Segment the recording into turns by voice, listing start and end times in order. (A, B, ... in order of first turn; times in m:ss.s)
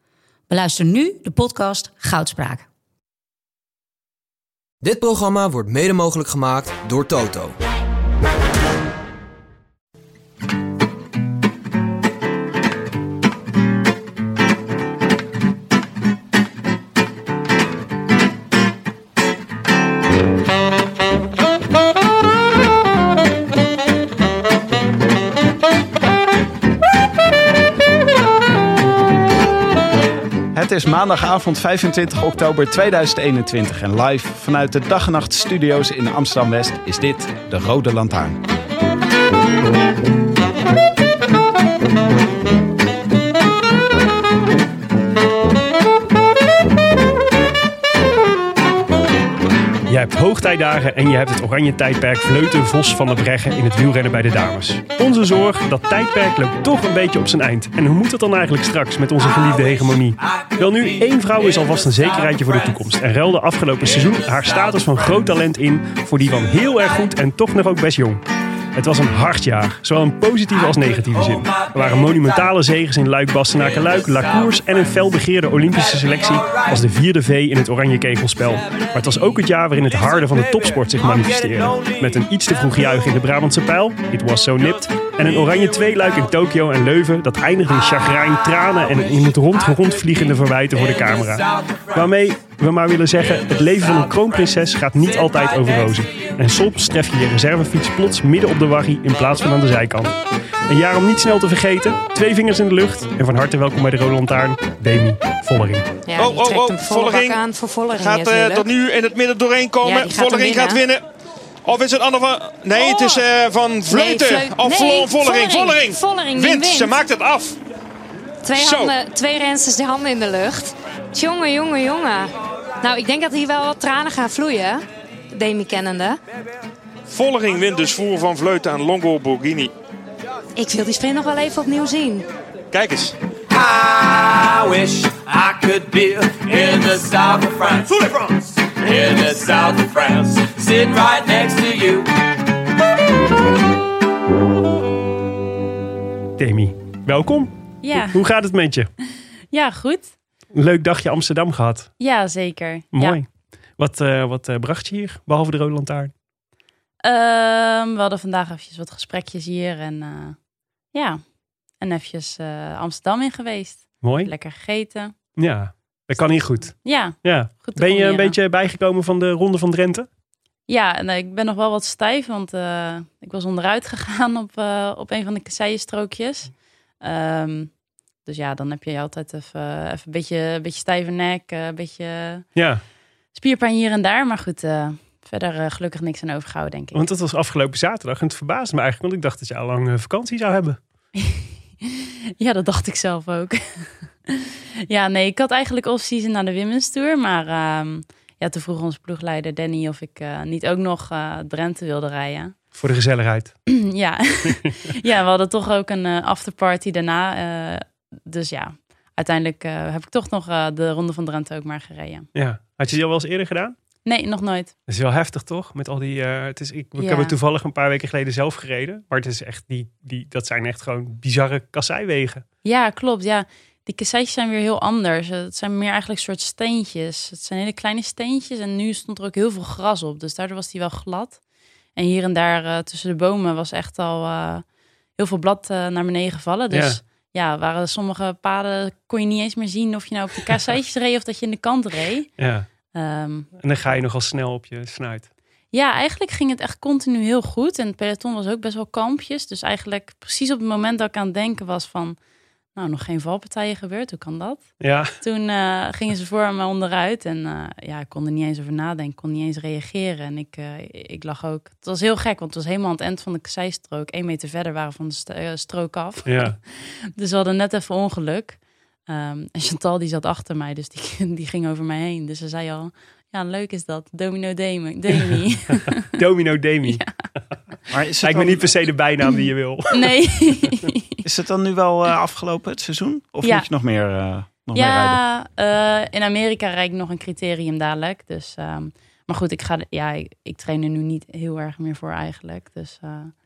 0:00.5-0:02.7 A
0:04.8-0:07.6 B
0:30.5-0:38.4 C
0:49.9-1:45.9 D
1:46.1-1:48.7 E
1:46.2-1:51.0 F
1:49.8-1:50.8 E
1:51.6-1:57.6 F
1:52.7-1:53.2 E
1:53.9-1:57.0 E
1:58.4-2:02.3 E
1:58.5-1:59.0 F
2:02.8-2:04.8 E
2:05.3-2:06.2 E
2:07.1-2:09.7 F
2:10.6-2:12.2 E
2:12.7-2:13.2 F
2:13.6-2:17.9 G
2:18.8-2:22.1 G
2:26.4-2:28.9 D
2:27.8-2:28.2 H
2:29.5-2:30.1 H
2:30.5-2:31.9 D
2:32.0-2:33.2 H
2:32.9-2:33.2 D
2:33.8-2:36.1 D
2:37.0-2:40.4 H
2:40.9-2:41.2 H
2:41.8-2:45.2 H
2:44.0-2:44.3 D
2:45.4-2:50.1 D
2:46.1-2:48.3 H
2:50.7-2:57.7 H
2:58.2-3:02.5 H
3:02.6-3:02.8 D
3:03.3-3:07.0 H
3:06.9-3:10.8 D
3:11.2-3:22.6 H
3:22.7-3:23.7 D
3:23.7-3:32.3 H
3:32.3-3:33.8 D
3:34.0-3:34.7 H
3:34.9-3:42.4 D
3:37.0-3:37.4 H
3:42.6-3:51.4 H
3:51.9-3:54.6 H
3:55.2-4:02.3 H
3:56.7-3:57.0 D
4:02.4-4:02.7 D
4:02.9-4:03.5 H
4:03.6-4:05.3 D
4:05.7-4:12.2 H
4:12.8-4:36.0 H
4:14.8-4:15.1 D
4:26.2-4:26.6 D
4:35.7-4:37.0 D
4:36.9-4:37.1 H
4:37.9-4:38.7 C
4:38.2-4:40.8 D
4:39.3-4:41.2 H
4:41.2-4:45.2 C
4:44.8-4:53.3 H